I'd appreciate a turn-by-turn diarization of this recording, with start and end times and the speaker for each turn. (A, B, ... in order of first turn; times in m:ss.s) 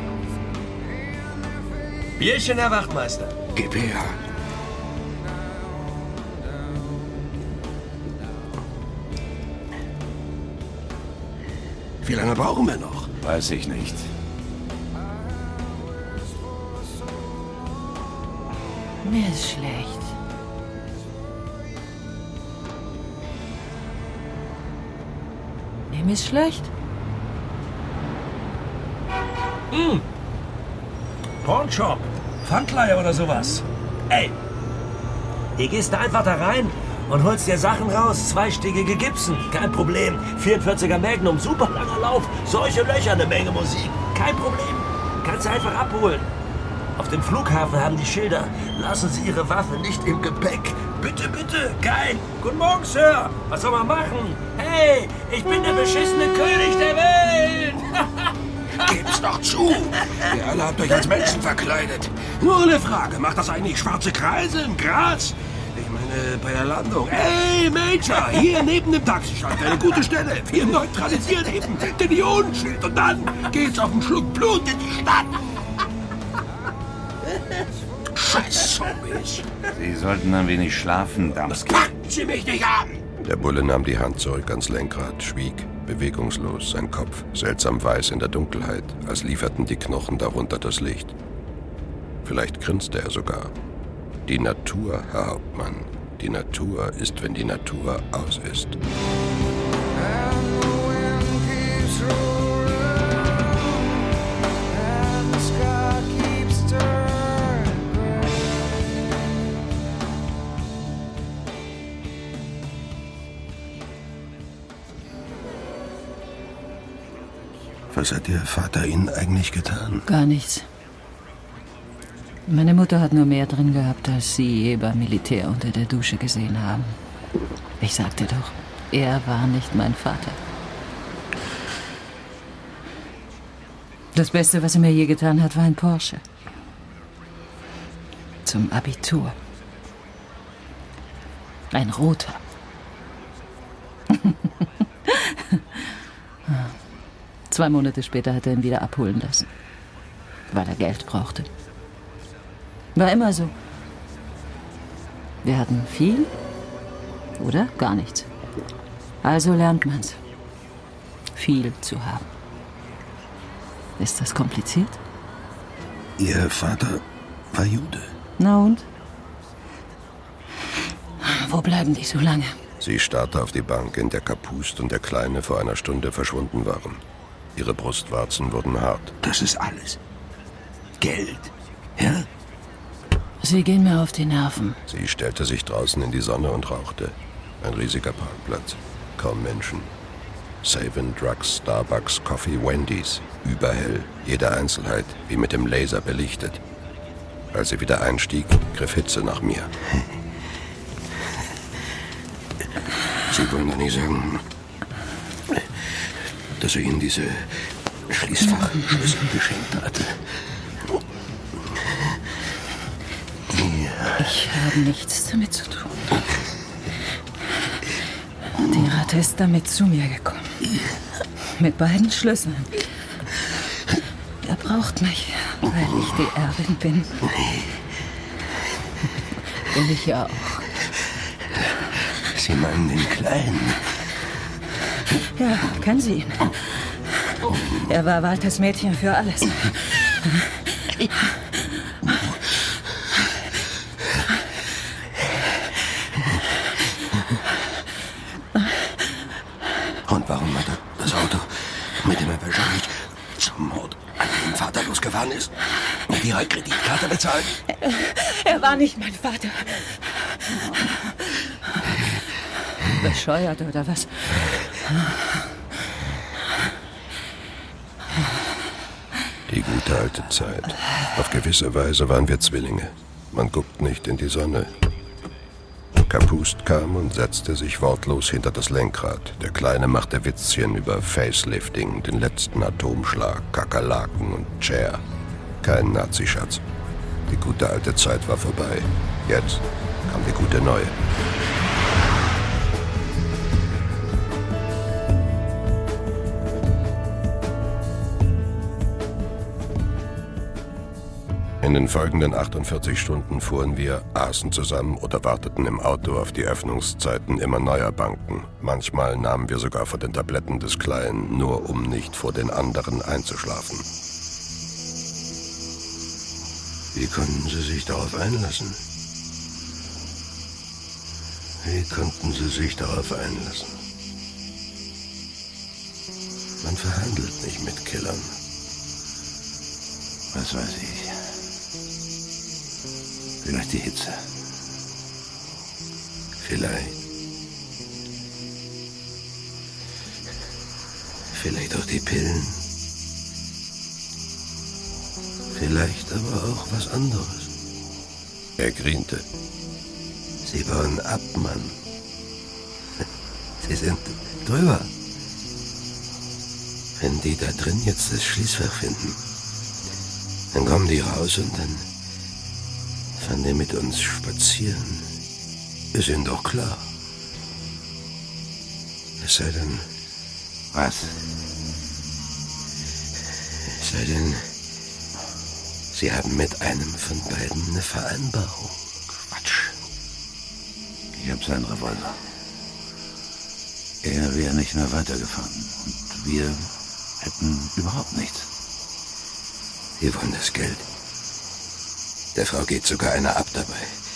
0:02.2-0:03.4 A
0:03.5-0:04.2 B
0:12.0-0:13.1 B
0:13.2-0:14.1 C
0:19.0-0:20.1 D
0:25.9-0:26.7 D
0:29.7-0:30.0 A
0:31.4-0:34.4 A
0:35.6-0:46.3 A
0:47.0-0:57.3 A
0:57.1-0:57.8 B
0:58.8-1:15.4 B
1:18.1-1:19.5 B
1:19.7-1:21.9 C
1:21.6-1:23.0 B
1:23.2-1:31.1 E
1:32.2-1:33.5 E
1:34.3-1:38.8 E
1:57.9-2:00.0 B
2:00.0-2:00.7 D
2:02.5-2:07.0 D
2:07.8-2:10.4 D
2:14.1-2:16.2 D
2:18.4-2:19.4 D
2:21.7-2:22.4 D
2:24.1-2:25.9 D
2:26.5-2:26.7 D
2:27.5-2:29.5 D
2:30.5-2:31.5 D
2:32.9-2:33.5 D
2:35.4-2:36.3 D
2:37.4-2:38.3 D
2:39.2-2:40.2 D
2:41.3-2:42.3 D
2:44.0-2:45.0 D
2:46.2-2:48.1 B
2:48.4-2:48.8 D
2:51.2-2:52.6 D
2:52.8-2:57.0 E
2:57.6-2:59.2 E
2:59.2-3:00.0 B
3:01.0-3:02.3 B
3:03.4-3:04.8 D
3:04.9-3:09.9 E
3:10.6-3:16.6 E
3:17.5-3:19.7 E
3:23.3-3:24.4 B
3:26.5-3:30.3 B
3:33.5-3:34.2 B
3:34.2-3:36.2 D
3:38.6-3:40.7 D
3:41.5-3:42.9 D
3:44.4-3:47.3 D
3:49.5-3:50.7 D
3:52.3-3:54.0 B
3:55.4-3:56.9 D
3:57.4-4:01.1 D
4:10.0-4:15.5 B
4:16.0-4:17.6 B
4:17.8-4:21.9 D
4:22.8-4:25.6 D
4:29.5-4:34.7 E
4:36.0-4:45.0 E
4:45.6-4:46.6 E
4:47.3-4:50.9 E
5:01.6-5:13.8 E
5:16.9-5:18.8 B
5:21.6-5:23.8 B
5:26.6-5:28.4 B
5:30.3-5:31.3 C
5:33.4-5:34.2 C
5:36.4-5:37.0 B
5:41.3-5:42.6 B
5:45.5-5:47.5 B
5:48.6-5:49.2 E
5:50.4-5:51.8 B
5:53.6-5:54.9 B
5:57.0-5:59.2 B
6:00.5-6:01.8 B
6:03.2-6:05.1 B
6:05.9-6:06.9 B
6:09.2-6:09.9 B
6:10.7-6:11.2 C
6:13.8-6:14.5 B
6:15.9-6:18.9 B
6:19.3-6:19.7 C
6:21.1-6:22.2 C
6:24.0-6:28.5 C
6:30.0-6:30.9 B
6:32.3-6:34.0 B